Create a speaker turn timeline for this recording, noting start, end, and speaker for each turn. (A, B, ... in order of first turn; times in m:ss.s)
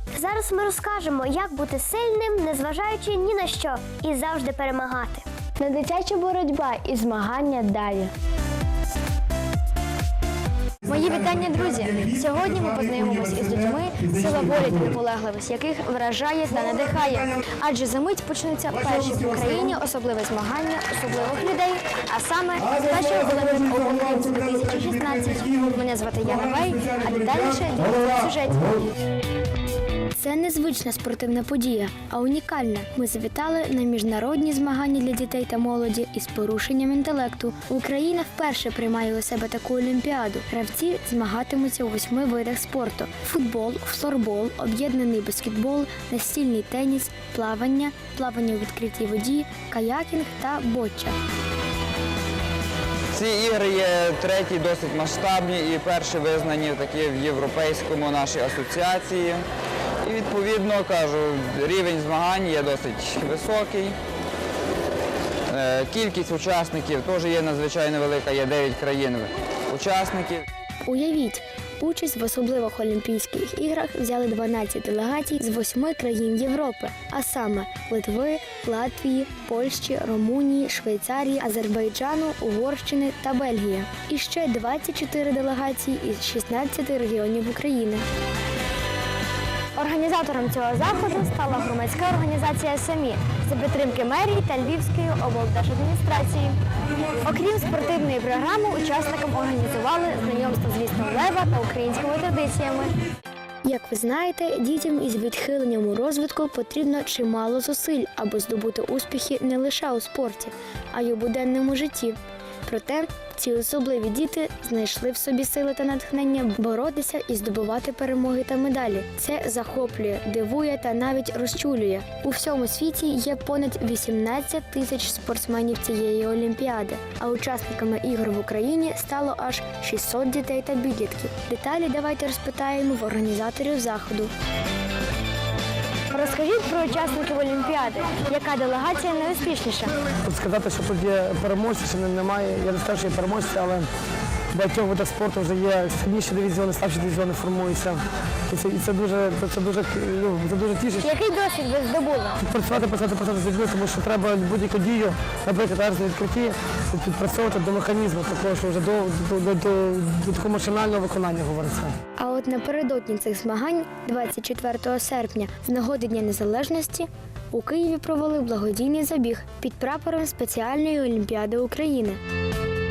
0:00.1-0:05.2 A
0:05.6-0:08.1 B
0:10.8-0:28.7 B
0:30.1-0:51.1 B
0:53.1-0:59.4 C
1:00.0-1:03.9 C
1:05.5-1:10.4 C
1:10.8-1:28.0 B
1:29.8-1:36.6 B
1:37.2-1:42.9 B
1:43.6-2:14.3 B
2:16.1-2:19.9 B
2:20.2-2:23.9 D
2:24.5-2:31.1 D
2:31.0-2:32.4 B
2:32.4-2:41.9 D
2:42.2-2:52.2 B